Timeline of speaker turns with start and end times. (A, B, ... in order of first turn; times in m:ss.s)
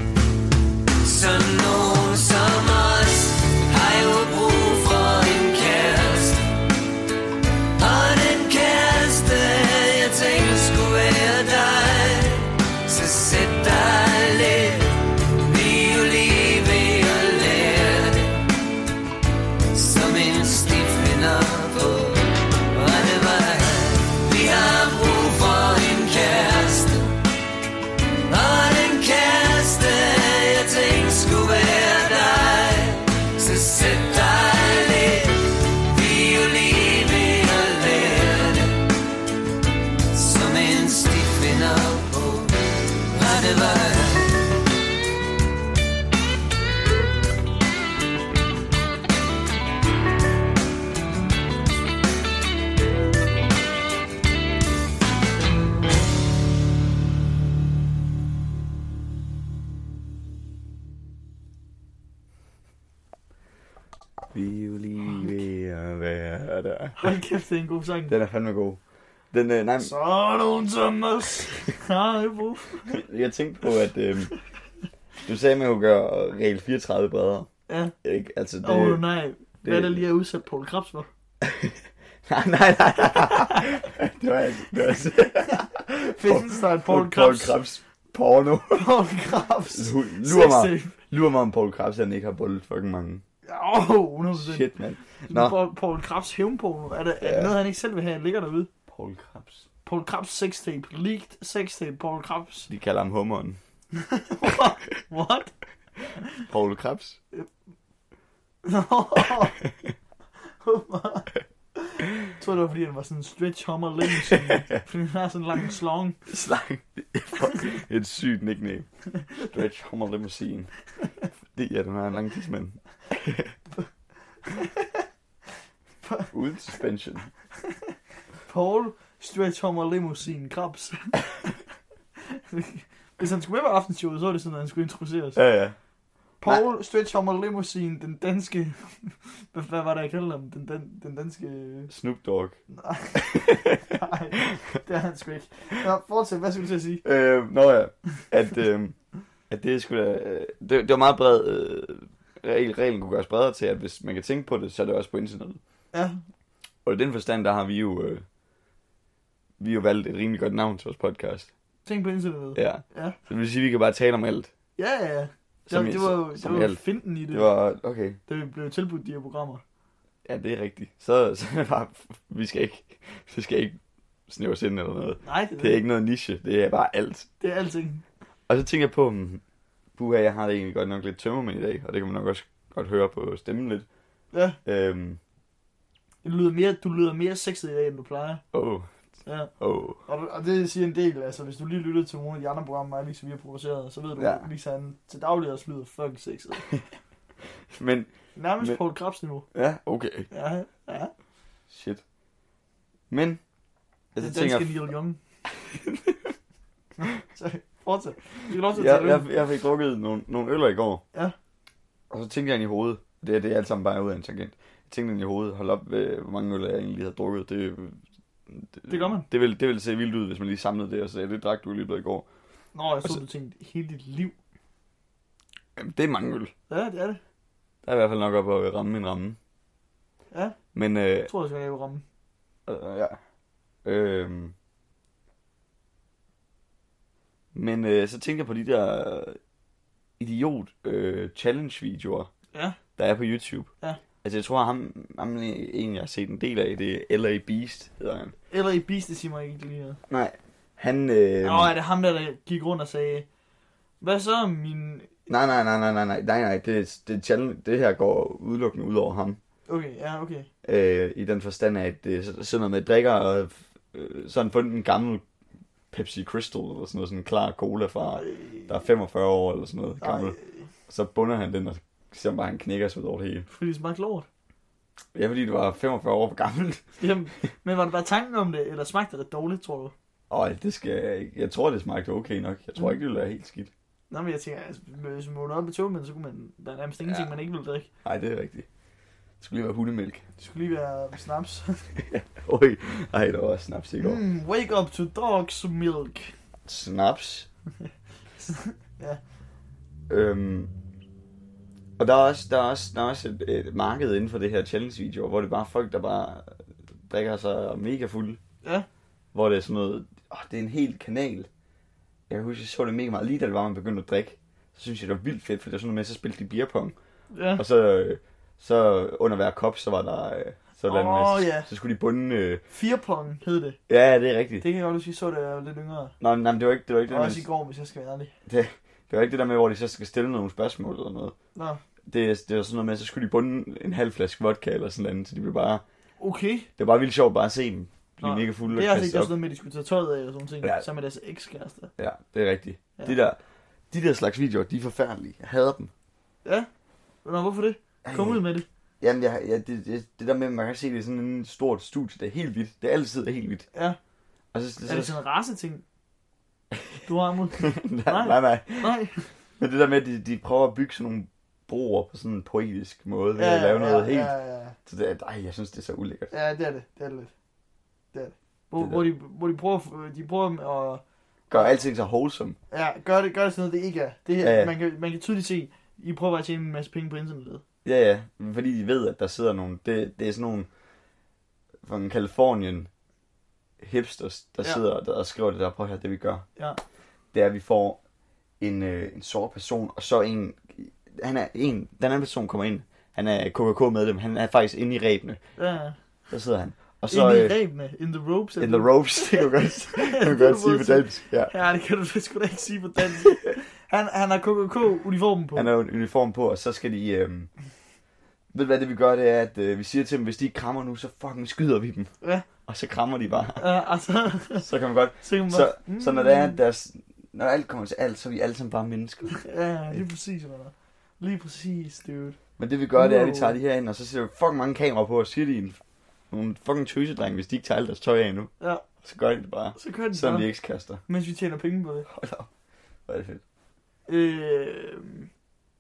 0:01.0-0:06.4 A
0:07.8-0:18.4 A
0:19.7-0:27.2 A
0:28.3-0:38.9 A
0:40.1-0:44.6 A
1:04.3-1:07.1 B
1:07.0-1:08.2 C
1:08.1-1:08.8 B
1:09.3-1:09.9 B
1:09.8-1:13.0 C
1:12.9-1:14.3 B
1:15.2-1:17.5 B
1:17.7-1:17.9 C
1:18.0-1:19.0 B
1:18.6-1:21.1 C
1:19.6-1:20.0 B
1:21.4-1:28.9 B
1:23.3-1:23.6 C
1:25.5-1:27.6 C
1:28.7-1:31.0 C
1:29.7-1:33.2 B
1:33.4-1:34.7 C
1:34.3-1:35.6 B
1:35.3-1:38.7 C
1:37.2-1:37.5 B
1:38.9-1:39.7 B
1:39.8-1:42.7 C
1:42.7-1:43.6 B
1:44.0-1:45.5 C
1:46.5-1:47.2 B
1:48.6-1:49.6 C
1:50.6-1:56.2 C
1:54.2-1:54.8 B
1:56.3-2:00.7 B
2:01.5-2:03.5 B
2:04.5-2:05.0 C
2:06.0-2:06.3 C
2:06.3-2:07.3 B
2:08.5-2:11.5 C
2:12.3-2:15.4 C
2:15.4-2:15.8 B
2:16.4-2:21.9 C
2:21.9-2:22.6 B
2:22.7-2:27.0 C
2:23.2-2:23.8 B
2:27.0-2:29.0 B
2:29.5-2:35.6 B
2:35.9-2:36.2 C
2:36.8-2:38.2 B
2:39.6-2:41.5 B
2:41.8-2:43.2 C
2:42.5-2:44.5 B
2:44.8-2:47.5 C
2:45.7-2:48.2 B
2:48.3-2:49.6 C
2:50.2-2:57.3 B
2:55.2-2:55.8 C
2:57.4-2:58.0 C
2:58.5-2:59.4 B
2:59.9-3:03.8 B
3:04.3-3:04.6 C
3:04.6-3:05.2 B
3:06.2-3:08.4 C
3:08.5-3:08.9 B
3:09.2-3:09.5 C
3:09.6-3:10.0 B
3:10.0-3:16.7 C
3:14.2-3:14.5 B
3:17.7-3:18.8 B
3:18.4-3:19.4 C
3:19.5-3:20.3 B
3:20.3-3:21.1 C
3:21.7-3:22.0 B
3:23.1-3:23.4 B
3:24.1-3:24.9 B
3:24.2-3:25.2 C
3:25.7-3:26.3 B
3:27.0-3:29.3 C
3:28.7-3:31.0 B
3:32.1-3:42.3 B
3:38.9-3:39.3 C
3:42.7-3:44.3 C
3:45.8-3:46.5 B
3:46.7-3:47.2 C
3:47.8-3:49.4 B
3:50.3-3:50.6 C
3:50.7-3:51.3 B
3:51.2-3:52.0 C
3:52.6-3:53.2 B
3:53.8-3:54.5 B
3:57.5-3:59.4 B
4:00.2-4:02.3 B
4:03.0-4:03.7 B
4:04.2-4:08.3 B
4:08.5-4:10.0 C
4:10.1-4:11.7 B
4:11.4-4:13.2 C
4:14.0-4:15.1 C
4:15.3-4:19.4 B
4:19.7-4:20.5 C
4:20.6-4:25.2 B
4:25.9-4:30.4 B
4:28.2-4:28.7 C
4:30.0-4:30.6 C
4:30.9-4:33.5 B
4:33.5-4:34.3 C
4:35.1-4:36.8 B
4:37.0-4:39.9 C
4:40.3-4:43.7 B
4:44.1-4:47.9 C
4:47.0-4:47.3 B
4:48.0-4:48.7 B
4:49.4-4:50.2 B
4:50.4-4:51.8 C
4:52.0-4:54.2 B
4:54.0-4:56.3 C
4:56.6-4:57.5 B
4:58.4-4:59.2 C
5:00.1-5:00.7 B
5:02.0-5:08.4 B
5:09.3-5:11.5 B
5:12.3-5:17.0 B
5:17.3-5:17.6 C
5:17.5-5:22.6 B
5:20.9-5:21.7 C
5:22.7-5:23.8 C
5:23.9-5:24.6 B
5:24.6-5:26.1 C
5:26.2-5:27.5 B
5:27.1-5:28.3 C
5:28.5-5:31.3 B
5:31.6-5:31.8 C
5:32.1-5:35.8 B
5:36.2-5:36.7 C
5:36.8-5:39.3 B
5:38.2-5:41.9 C
5:42.0-5:43.4 B
5:43.9-5:45.9 B
5:47.2-5:48.6 C
5:48.0-5:48.4 B
5:49.0-5:53.7 B
5:54.5-5:55.2 B
5:54.8-5:55.8 C
5:56.7-5:58.9 B
5:57.0-5:59.3 C
5:59.6-6:06.3 B
6:03.3-6:04.8 C
6:06.3-6:07.3 C
6:08.1-6:11.0 C
6:08.8-6:09.0 B
6:11.5-6:12.6 B
6:11.5-6:11.8 C
6:12.7-6:17.6 C
6:14.4-6:14.7 B
6:17.8-6:20.7 B
6:21.8-6:22.9 B
6:23.8-6:26.4 B
6:27.3-6:28.0 B
6:28.6-6:35.4 B
6:35.6-6:36.0 C
6:36.3-6:37.6 B
6:37.1-6:45.7 C
6:38.6-6:41.5 B
6:45.5-6:47.5 B
6:48.5-6:52.1 B
6:52.6-6:53.6 B
6:53.6-6:54.6 C
6:54.6-7:00.0 B
6:55.2-6:56.6 C
6:59.4-7:02.4 C
7:02.6-7:11.0 B
7:03.0-7:03.5 C
7:09.8-7:10.5 C
7:11.0-7:12.1 C
7:12.1-7:12.5 B
7:13.1-7:13.4 B
7:14.1-7:15.3 C